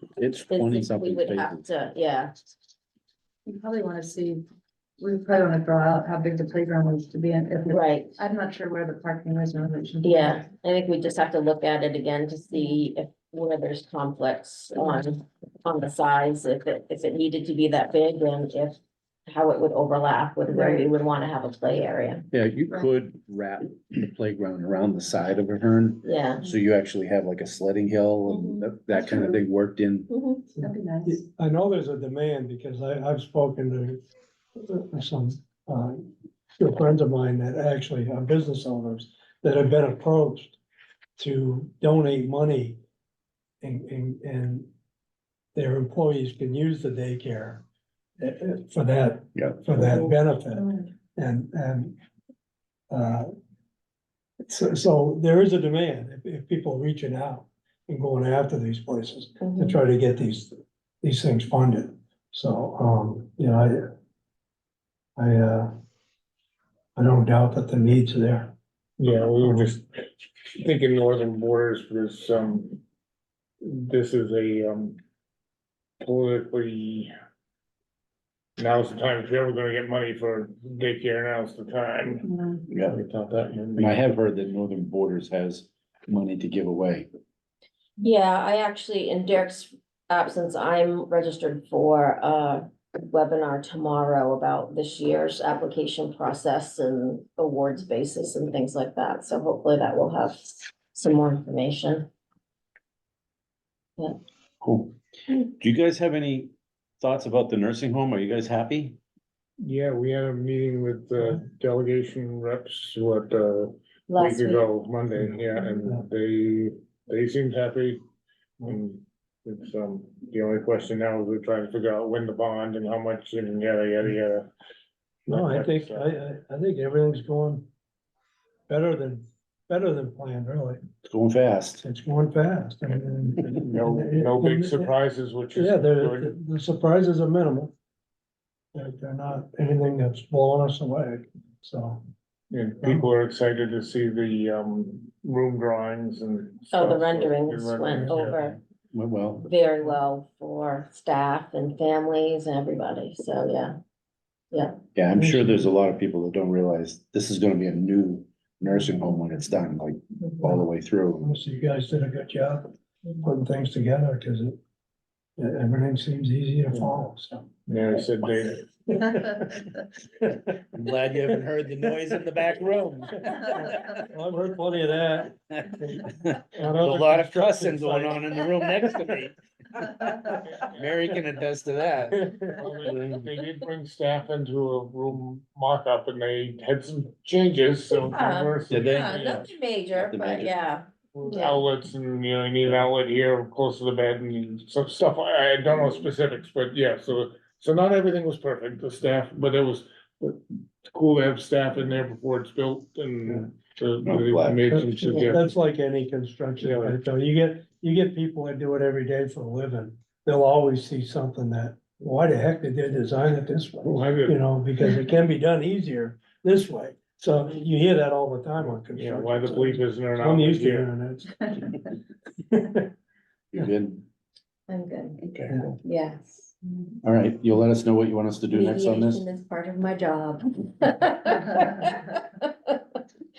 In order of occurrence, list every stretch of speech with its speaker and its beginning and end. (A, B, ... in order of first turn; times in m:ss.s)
0:00.2-0:01.6 A
0:00.5-0:02.3 B
0:03.4-0:04.5 C
0:05.0-0:10.4 C
0:07.7-0:08.2 B
0:10.0-0:22.2 B
0:20.6-0:20.8 C
0:22.3-0:30.1 A
0:26.0-0:26.4 B
0:28.3-0:28.7 B
0:30.1-0:30.5 B
0:30.6-0:34.0 D
0:30.6-0:31.2 C
0:34.6-0:36.0 D
0:36.6-0:40.6 D
0:41.2-0:42.8 D
0:43.6-0:44.7 D
0:45.5-0:47.6 D
0:48.2-0:52.0 D
0:49.3-0:50.1 A
0:52.9-0:53.3 D
0:54.4-1:03.9 D
0:59.4-0:59.8 B
1:05.2-1:05.7 D
1:07.0-1:08.5 D
1:09.0-1:09.9 E
1:09.4-1:09.7 D
1:10.5-1:12.8 E
1:13.6-1:15.0 E
1:16.0-1:17.1 E
1:18.6-1:24.0 E
1:22.3-1:22.6 C
1:22.7-1:23.0 A
1:23.8-1:27.1 A
1:28.0-1:42.1 B
1:44.6-1:49.0 A
1:49.6-1:58.0 E
1:51.2-1:51.4 D
1:54.1-1:54.7 B
1:55.1-1:56.0 D
1:58.6-2:04.5 E
2:05.3-2:06.0 E
2:05.3-2:07.6 D
2:08.7-2:10.8 D
2:11.1-2:11.8 A
2:11.8-2:14.9 D
2:13.6-2:16.4 E
2:15.5-2:17.7 D
2:18.7-2:22.0 D
2:22.5-2:28.6 E
2:26.7-2:28.6 B
2:28.9-2:29.5 A
2:29.4-2:33.8 B
2:34.9-2:41.3 A
2:35.1-2:35.7 D
2:41.2-2:44.6 D
2:45.4-2:47.5 D
2:46.7-2:47.0 E
2:47.7-2:48.7 E
2:48.9-2:49.6 D
2:50.2-2:50.5 D
2:50.7-2:54.0 A
2:53.4-2:58.8 D
2:55.8-3:03.3 A
3:00.5-3:01.0 E
3:02.5-3:09.5 E
3:08.1-3:11.6 B
3:08.7-3:09.4 A
3:10.0-3:10.5 A
3:11.1-3:25.5 E
3:24.0-3:24.6 A
3:24.7-3:41.8 D
3:25.0-3:25.4 B
3:26.6-3:27.0 E
3:33.8-3:34.4 E
3:38.8-3:40.9 E
3:42.4-3:42.9 D
3:43.5-3:44.0 A
3:44.7-3:45.2 B
3:45.2-3:45.7 A
3:45.5-3:45.7 D
3:45.8-3:46.5 B
3:47.0-3:49.2 A
3:48.5-3:53.0 B